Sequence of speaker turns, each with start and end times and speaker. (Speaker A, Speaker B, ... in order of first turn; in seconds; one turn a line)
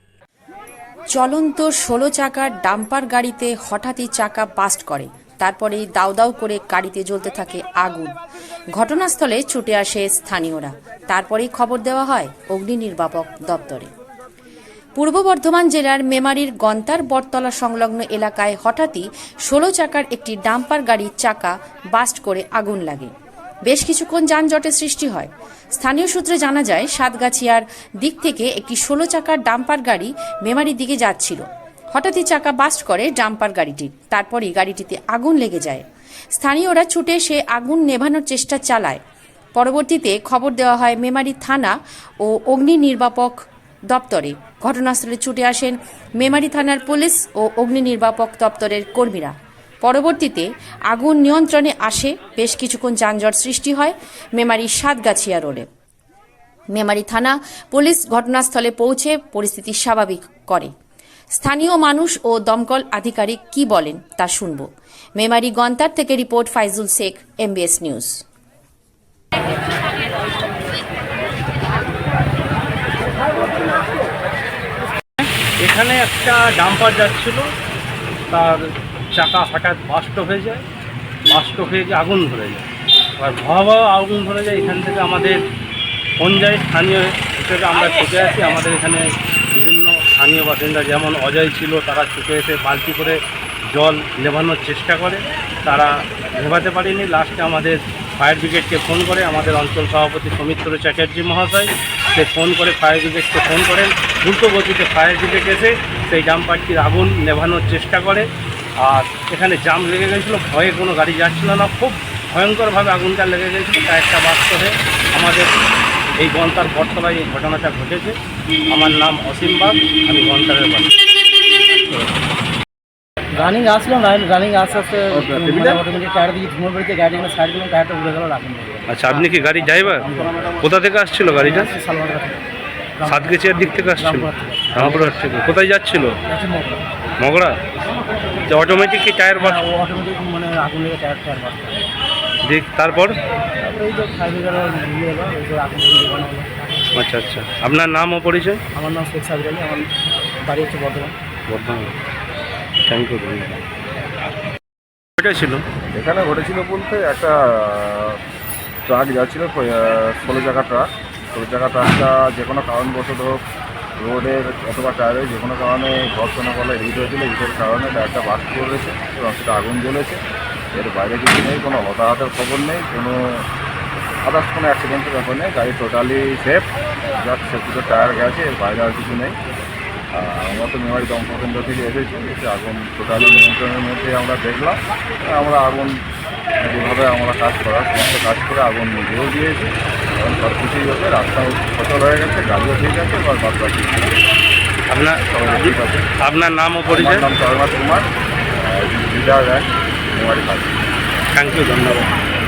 Speaker A: 1.1-8.2
Speaker A: 8.8-13.9
Speaker A: 15.0-23.1
Speaker A: 23.7-39.0
Speaker A: 39.6-43.4
Speaker A: 43.9-55.7
Speaker A: 56.7-60.7
Speaker A: 61.4-64.7
Speaker A: 65.2-68.2
Speaker B: 75.2-77.5
Speaker B: 78.3-78.6
Speaker B: 79.1-80.6
Speaker B: 81.3-85.4
Speaker B: 86.2-93.2
Speaker B: 93.7-108.3
Speaker B: 108.8-115.5
Speaker B: 116.2-118.2
Speaker B: 118.7-120.9
Speaker C: 123.3-130.6
Speaker D: 125.1-125.8
Speaker B: 128.9-130.1
Speaker B: 130.6-131.7
Speaker C: 131.3-132.4
Speaker C: 133.0-135.2
Speaker B: 133.1-136.2
Speaker C: 136.3-136.8
Speaker B: 137.2-137.6
Speaker B: 138.5-139.6
Speaker C: 139.4-141.8
Speaker B: 142.4-143.2
Speaker C: 143.6-146.5
Speaker B: 146.9-148.6
Speaker C: 148.8-149.9
Speaker C: 150.4-151.2
Speaker B: 151.5-152.0
Speaker B: 152.9-153.7
Speaker B: 155.2-155.6
Speaker D: 155.9-158.2
Speaker D: 158.9-163.4
Speaker D: 164.0-170.2
Speaker D: 170.7-173.5
Speaker D: 174.2-176.7
Speaker D: 177.2-179.4
Speaker D: 180.1-184.8
Speaker D: 185.3-186.0
Speaker D: 186.6-194.1
Speaker B: 194.9-197.3
Speaker D: 195.3-196.1
Speaker D: 196.9-198.1
Speaker D: 198.6-200.8
Speaker B: 201.3-202.1